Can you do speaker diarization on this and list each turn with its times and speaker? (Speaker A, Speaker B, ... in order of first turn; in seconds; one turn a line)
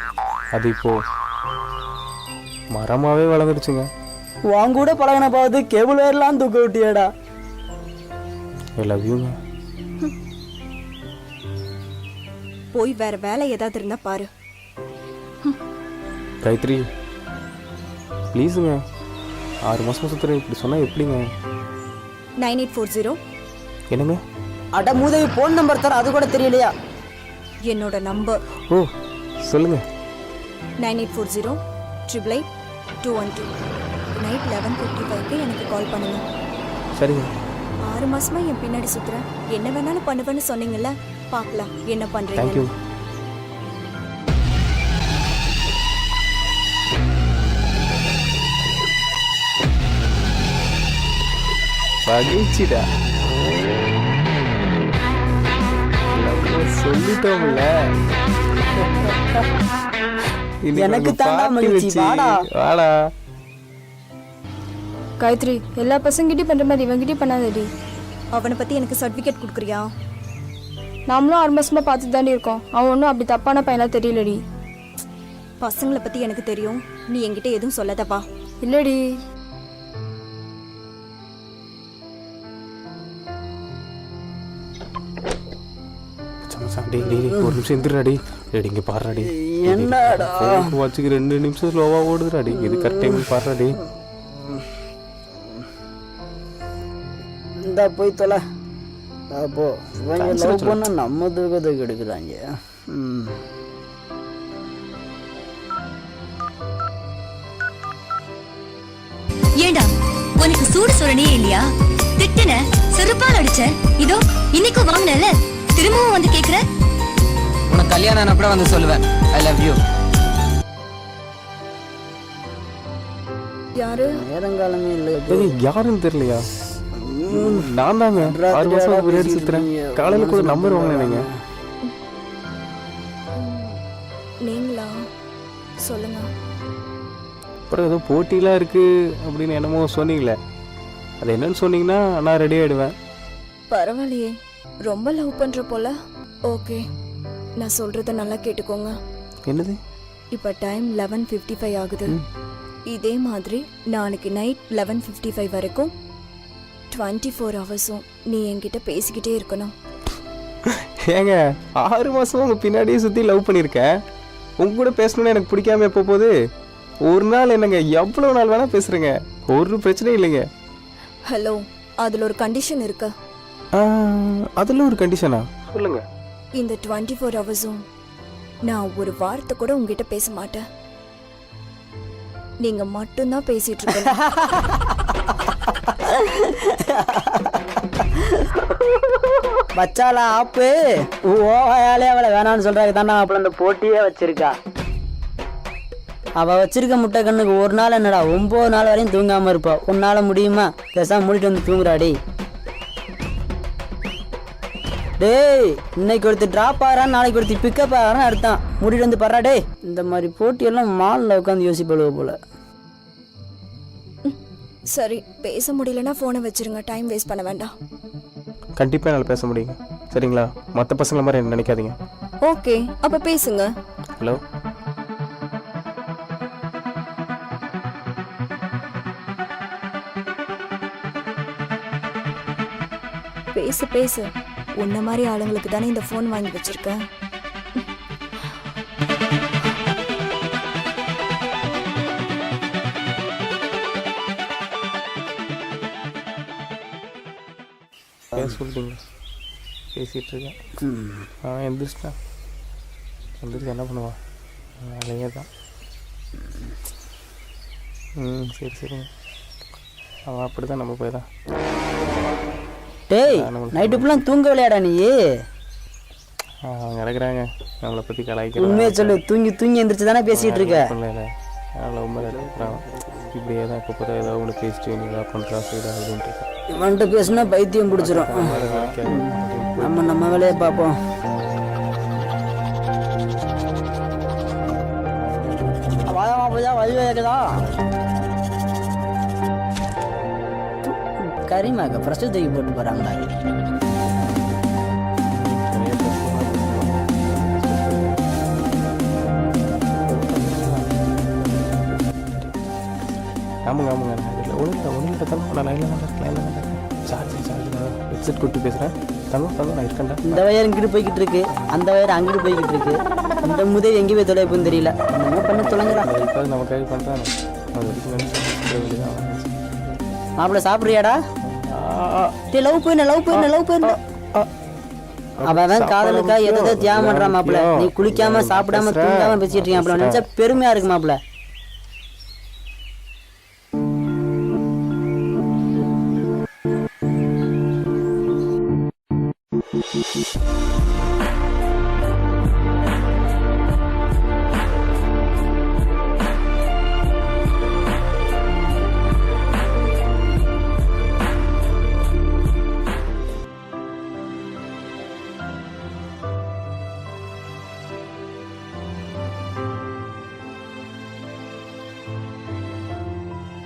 Speaker A: 0.5-0.9
Speaker A: 2.7-3.9
Speaker B: 4.5-7.1
Speaker A: 8.8-9.3
Speaker C: 12.7-14.3
Speaker A: 16.4-16.8
Speaker A: 18.3-18.8
Speaker A: 19.6-21.2
Speaker C: 22.4-23.2
Speaker A: 23.9-24.2
Speaker B: 24.8-26.7
Speaker C: 27.6-28.4
Speaker A: 29.4-29.8
Speaker C: 30.8-32.5
Speaker C: 33.0-33.5
Speaker C: 34.1-36.2
Speaker A: 37.0-37.3
Speaker C: 37.8-42.6
Speaker A: 42.4-42.7
Speaker A: 52.1-52.8
Speaker A: 56.1-57.6
Speaker A: 60.6-62.9
Speaker B: 60.7-62.3
Speaker D: 65.2-67.7
Speaker C: 68.3-69.9
Speaker D: 71.1-74.4
Speaker C: 75.6-78.2
Speaker D: 78.6-79.1
Speaker A: 86.5-93.8
Speaker B: 87.1-87.6
Speaker B: 89.1-90.7
Speaker B: 92.5-93.3
Speaker B: 97.6-98.4
Speaker B: 99.3-103.4
Speaker A: 100.2-100.8
Speaker E: 109.6-109.9
Speaker E: 110.4-111.7
Speaker E: 112.2-116.6
Speaker F: 117.7-119.7
Speaker C: 123.8-124.2
Speaker B: 124.1-125.5
Speaker A: 125.3-126.5
Speaker B: 126.9-131.3
Speaker A: 127.3-131.2
Speaker C: 133.3-133.8
Speaker C: 134.4-135.0
Speaker C: 135.8-136.3
Speaker A: 137.7-140.3
Speaker A: 141.2-142.9
Speaker C: 143.7-144.3
Speaker C: 144.8-145.9
Speaker C: 146.5-146.8
Speaker C: 147.6-148.9
Speaker A: 149.4-149.8
Speaker C: 150.3-152.2
Speaker C: 152.9-155.9
Speaker C: 156.9-159.7
Speaker A: 160.7-163.8
Speaker A: 164.6-166.3
Speaker A: 167.1-170.4
Speaker C: 171.3-173.1
Speaker A: 173.7-176.0
Speaker C: 176.6-177.8
Speaker C: 178.7-180.6
Speaker C: 182.6-184.2
Speaker B: 184.2-188.7
Speaker B: 189.7-194.5
Speaker B: 196.4-202.2
Speaker B: 205.2-212.4
Speaker C: 214.9-217.7
Speaker A: 218.8-221.9
Speaker C: 222.4-223.7
Speaker C: 233.5-237.0
Speaker A: 248.3-249.0
Speaker A: 249.9-250.6
Speaker B: 250.8-251.3
Speaker A: 251.4-252.1
Speaker A: 253.4-254.2
Speaker A: 254.8-255.5
Speaker A: 258.2-259.1
Speaker A: 260.3-261.2
Speaker B: 263.1-265.1
Speaker A: 263.2-264.2
Speaker A: 266.6-269.2
Speaker B: 268.6-270.9
Speaker A: 270.3-271.3
Speaker A: 271.8-276.5
Speaker B: 276.7-280.9
Speaker A: 277.9-280.6
Speaker A: 285.2-286.2
Speaker B: 286.1-287.5
Speaker B: 290.8-293.3
Speaker A: 295.3-298.2
Speaker A: 300.0-302.5
Speaker A: 303.6-310.4
Speaker B: 310.2-316.1
Speaker A: 315.5-319.6
Speaker B: 320.4-321.2
Speaker A: 321.4-322.4
Speaker B: 322.5-324.0
Speaker A: 323.3-324.5
Speaker A: 325.4-330.2
Speaker B: 325.4-331.2